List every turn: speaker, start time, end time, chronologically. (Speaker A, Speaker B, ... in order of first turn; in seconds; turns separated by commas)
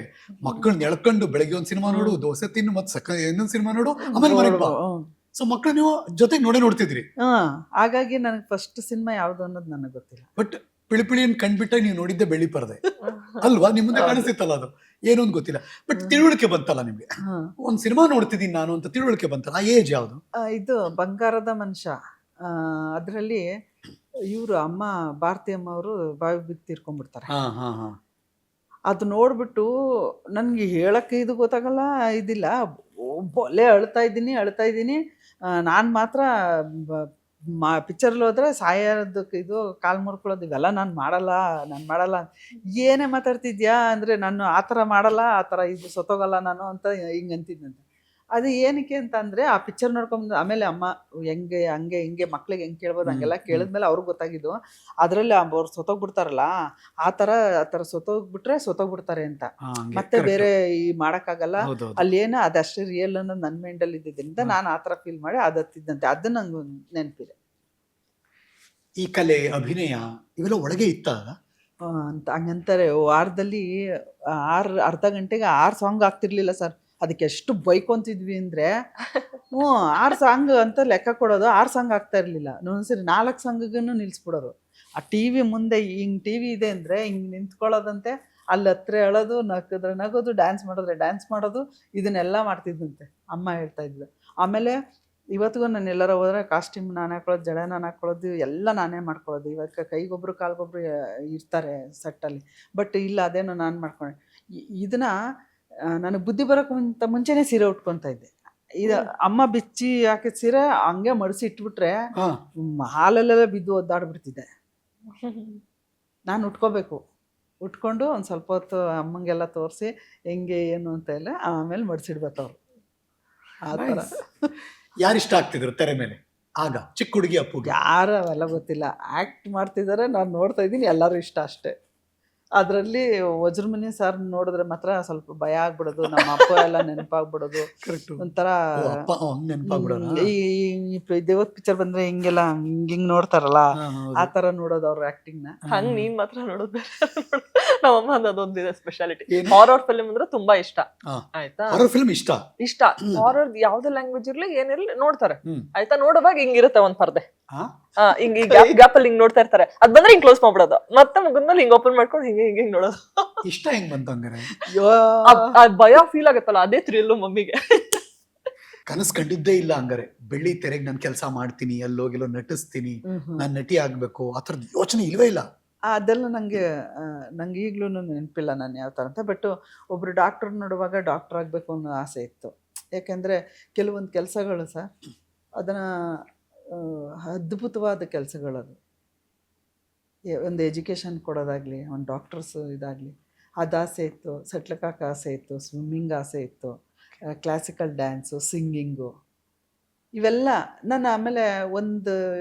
Speaker A: 0.4-4.7, Speaker B: 1.9-2.2, Speaker B: 4.1-5.1, Speaker A: 5.3-7.0, Speaker B: 7.2-10.3, Speaker A: 10.4-12.8, Speaker C: 13.1-13.4, Speaker A: 13.4-17.1, Speaker B: 13.9-14.3, Speaker A: 17.6-20.2, Speaker B: 20.5-21.9, Speaker B: 22.5-23.4, Speaker B: 24.3-27.3, Speaker A: 27.3-28.0, Speaker B: 28.9-29.7, Speaker B: 30.4-32.5, Speaker B: 33.3-35.0, Speaker B: 35.6-37.0, Speaker B: 37.6-42.2, Speaker B: 42.8-47.8, Speaker B: 48.4-56.5, Speaker A: 53.0-53.7, Speaker B: 57.0-67.3, Speaker A: 59.7-60.5, Speaker A: 61.6-62.0, Speaker A: 69.0-71.3, Speaker B: 71.9-73.7, Speaker B: 74.5-78.7, Speaker B: 79.5-94.8, Speaker B: 95.3-104.1, Speaker B: 104.8-105.1, Speaker B: 106.0-112.0, Speaker B: 112.6-114.5, Speaker C: 115.2-115.6, Speaker B: 116.3-117.0, Speaker B: 117.6-122.6, Speaker B: 123.6-124.2, Speaker A: 123.7-124.0, Speaker A: 125.0-127.7, Speaker B: 127.6-131.7, Speaker B: 132.6-138.6, Speaker A: 137.8-138.2, Speaker A: 138.8-140.2, Speaker B: 139.7-145.6, Speaker A: 143.8-144.3, Speaker A: 145.7-146.1, Speaker C: 145.7-151.9, Speaker A: 149.3-149.6, Speaker A: 151.1-152.4, Speaker C: 152.6-157.2, Speaker C: 158.0-163.4, Speaker B: 158.4-158.8, Speaker A: 163.4-164.5, Speaker B: 164.7-165.5, Speaker C: 165.2-168.0, Speaker A: 168.9-175.5, Speaker B: 173.1-173.5, Speaker B: 175.9-184.9, Speaker B: 186.7-188.8, Speaker B: 190.3-196.7, Speaker B: 197.3-199.1, Speaker B: 200.2-202.1